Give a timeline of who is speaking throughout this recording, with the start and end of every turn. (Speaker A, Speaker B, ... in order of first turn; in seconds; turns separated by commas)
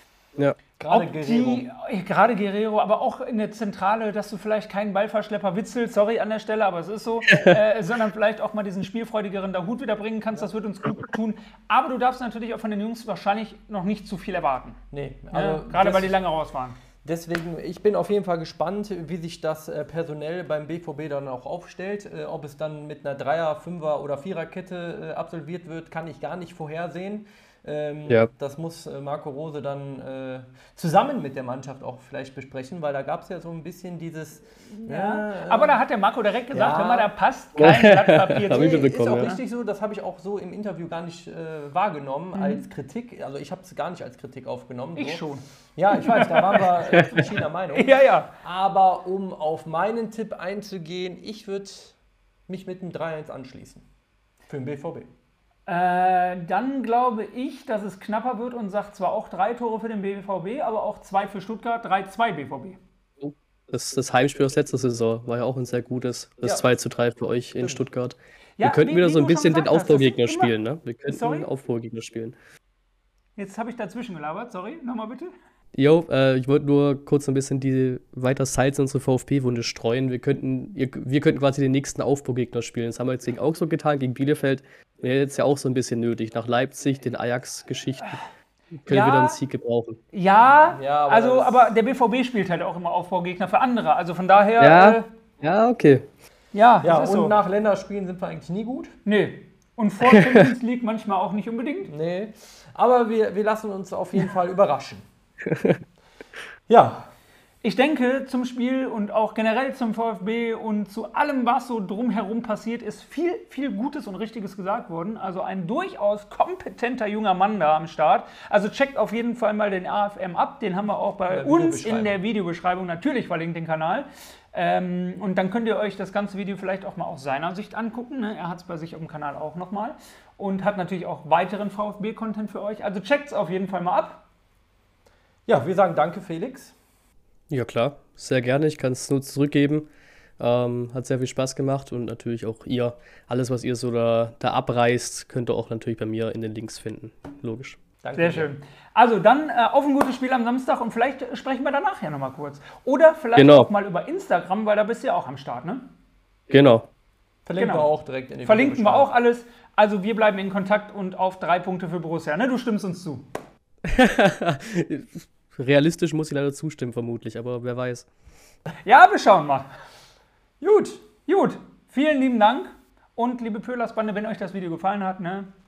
Speaker A: 0.8-1.7, Speaker B: 0.9-14.8, Speaker C: 7.3-7.6, Speaker A: 14.9-16.2, Speaker B: 15.3-16.8, Speaker A: 17.0-35.8, Speaker B: 34.8-39.4, Speaker A: 36.5-37.1, Speaker C: 37.6-39.3, Speaker A: 38.5-45.2, Speaker B: 42.3-42.6, Speaker B: 45.0-48.3, Speaker A: 45.8-52.0, Speaker A: 52.5-53.9, Speaker A: 54.5-55.1, Speaker B: 55.7-62.8, Speaker C: 63.2-72.3, Speaker A: 66.4-66.7, Speaker B: 68.6-70.5, Speaker B: 71.1-71.5, Speaker B: 73.4-75.3, Speaker C: 75.7-88.2, Speaker C: 88.8-90.0, Speaker B: 88.9-89.4, Speaker B: 90.1-95.1, Speaker A: 90.7-91.6, Speaker C: 94.6-96.1, Speaker B: 96.5-97.3, Speaker A: 96.8-98.9, Speaker B: 99.0-101.9, Speaker C: 100.0-100.4, Speaker A: 101.9-105.0, Speaker C: 105.5-105.8, Speaker A: 106.7-107.1, Speaker B: 107.6-134.2, Speaker A: 121.3-122.2, Speaker A: 135.5-136.7, Speaker C: 137.5-139.9, Speaker C: 140.4-147.8, Speaker A: 148.0-148.5, Speaker B: 148.2-155.8, Speaker C: 153.3-153.7, Speaker C: 156.5-156.9, Speaker A: 157.4-159.1, Speaker B: 157.6-157.9, Speaker B: 158.4-163.2, Speaker C: 163.8-168.1, Speaker B: 168.8-169.7, Speaker A: 170.6-171.0, Speaker B: 171.2-175.5